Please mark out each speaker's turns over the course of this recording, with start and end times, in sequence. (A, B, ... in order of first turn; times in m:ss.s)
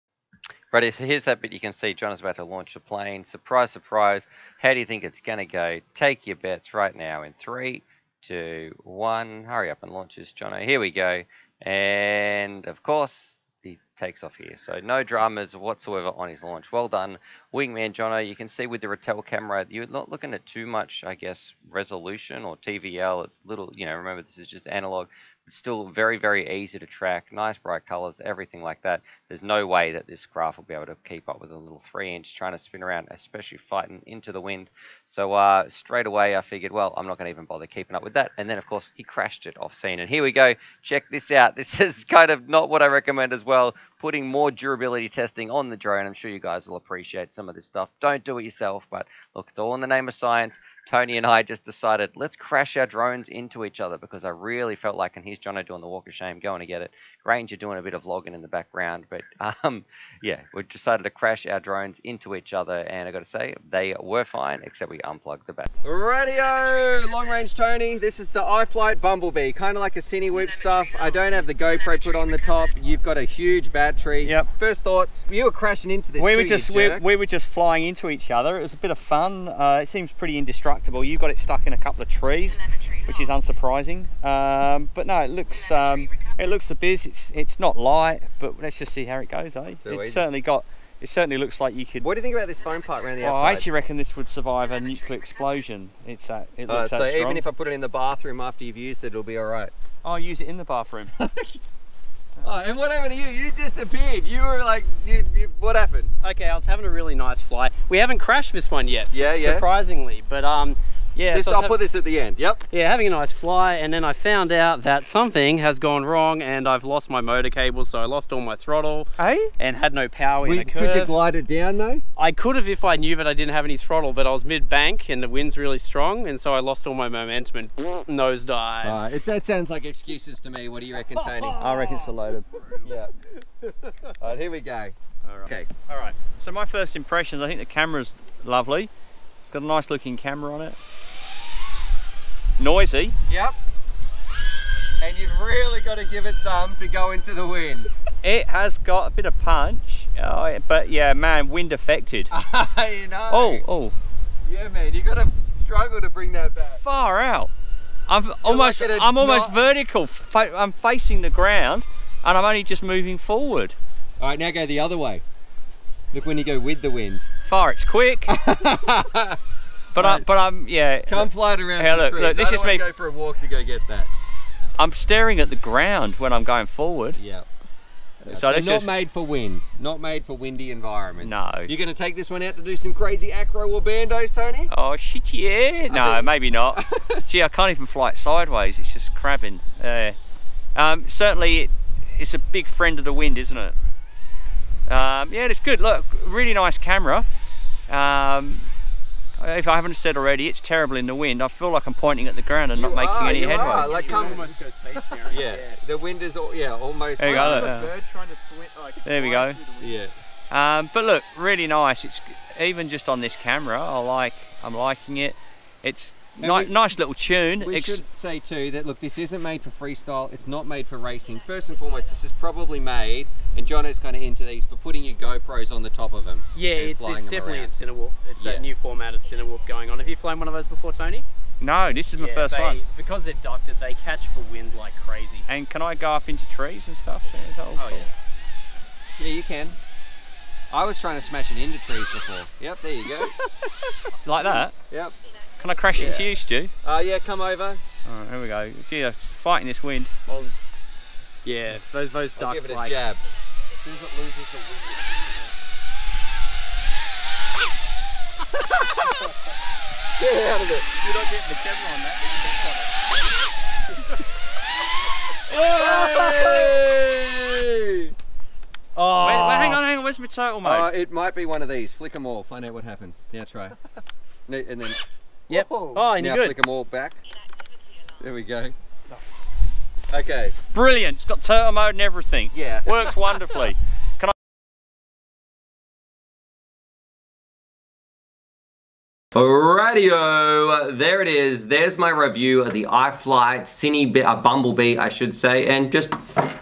0:00.7-1:17.0 A
1:14.2-1:14.5 B
1:16.2-1:32.0 B
1:29.8-1:30.2 A
1:32.0-1:33.7 A
1:33.2-1:37.4 B
1:36.7-1:39.7 A
1:40.0-1:41.1 B
1:42.4-1:46.1 A
1:46.2-1:51.8 C
1:49.1-1:49.6 A
1:51.3-1:52.6 A
1:52.7-2:01.2 C
1:59.2-1:59.5 B
2:00.4-2:02.0 A
2:02.2-2:09.0 C
2:08.8-2:11.6 A
2:11.1-2:12.1 C
2:11.6-2:12.6 B
2:12.8-2:13.1 A
2:14.2-2:15.7 A
2:15.2-2:18.9 B
2:19.4-2:20.8 B
2:22.6-2:23.2 B
2:23.3-2:23.5 A
2:25.0-2:27.9 A
2:28.2-2:32.3 B
2:32.3-2:33.6 A
2:33.3-2:34.0 B
2:34.5-2:36.8 A
2:36.7-2:37.5 B
2:38.1-2:43.7 B
2:38.4-2:39.5 A
2:44.2-2:45.2 A
2:46.1-2:47.2 A
2:47.4-2:48.3 B
2:48.3-2:49.4 A
2:49.9-2:52.8 B
2:50.0-2:50.2 A
2:51.1-2:54.1 A
2:54.8-2:57.2 B
2:57.2-2:57.4 A
2:58.2-2:58.9 B
2:58.3-3:04.6 A
3:01.2-3:01.7 B
3:04.7-3:10.2 B
3:05.9-3:06.3 A
3:10.7-3:13.8 B
3:14.9-3:17.2 B
3:17.9-3:18.7 B
3:19.4-3:24.0 B
3:22.8-3:24.4 A
3:23.0-3:25.7 C
3:23.8-3:24.4 D
3:25.3-3:27.8 A
3:27.2-3:27.9 B
3:27.2-3:29.8 D
3:29.0-3:29.6 B
3:29.8-3:30.1 A
3:30.5-3:38.0 B
3:36.4-3:36.7 A
3:37.6-3:47.7 A
3:46.6-3:51.2 C
3:48.4-3:48.6 A
3:51.6-3:52.9 B
3:52.2-3:55.4 C
3:55.5-3:58.1 B
3:57.8-3:58.1 C
3:59.2-3:59.7 A
4:00.7-4:03.3 A
4:04.2-4:04.7 B
4:05.6-4:06.7 B
4:05.9-4:06.2 A
4:06.8-4:07.8 A
4:08.0-4:10.1 B
4:11.4-4:13.0 C
4:12.4-4:13.2 A
4:13.8-4:15.4 D
4:20.2-4:20.9 A
4:21.0-4:23.0 C
4:25.5-4:28.1 A
4:29.0-4:29.8 C
4:29.1-4:30.9 B
4:30.6-4:33.7 A
4:34.5-4:37.2 A
4:35.5-4:36.5 C
4:38.2-4:38.7 A
4:40.1-4:40.5 A
4:40.7-4:44.3 B
4:42.5-4:42.9 A
4:49.3-4:56.2 A